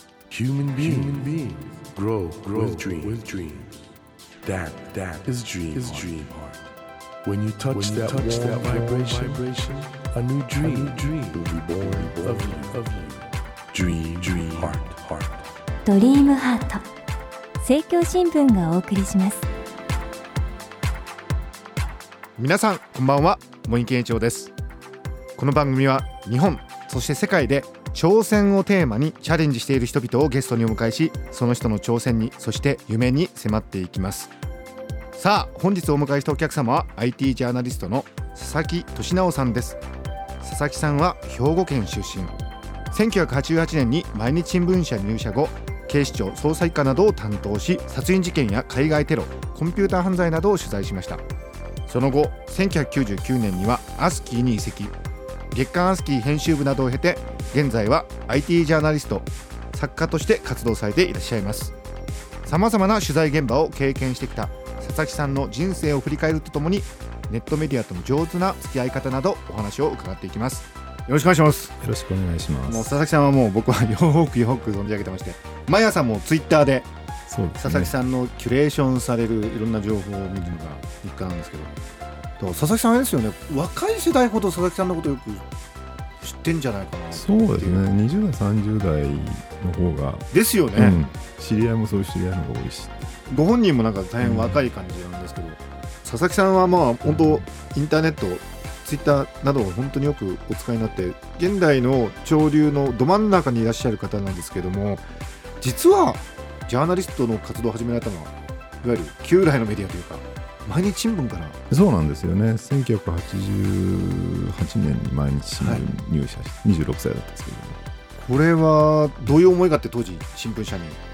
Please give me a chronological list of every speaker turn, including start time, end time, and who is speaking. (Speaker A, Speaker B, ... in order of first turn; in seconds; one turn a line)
Speaker A: 0.3-1.4
Speaker B: 0.6-3.7
Speaker A: 2.4-3.3
Speaker A: 4.5-6.4
Speaker B: 4.5-6.5
Speaker B: 7.2-13.1
Speaker A: 7.7-9.6
Speaker A: 10.5-12.9
Speaker A: 13.7-14.8
Speaker B: 13.7-15.3
Speaker A: 15.8-16.8
Speaker A: 17.6-19.5
Speaker C: 22.4-24.5
Speaker C: 25.4-34.3
Speaker C: 35.1-39.8
Speaker C: 40.4-42.4
Speaker C: 42.9-51.2
Speaker C: 51.9-54.9
Speaker C: 55.5-61.7
Speaker C: 62.4-71.7
Speaker D: 71.8-73.0
Speaker C: 72.7-76.9
Speaker D: 77.3-77.9
Speaker C: 77.6-81.7
Speaker C: 82.4-85.5
Speaker C: 86.2-87.8
Speaker D: 87.1-93.1
Speaker C: 90.3-91.1
Speaker C: 93.3-105.1
Speaker D: 94.2-94.6
Speaker D: 97.0-97.4
Speaker C: 105.6-111.6
Speaker D: 111.7-117.8
Speaker C: 115.6-115.8
Speaker C: 118.2-121.0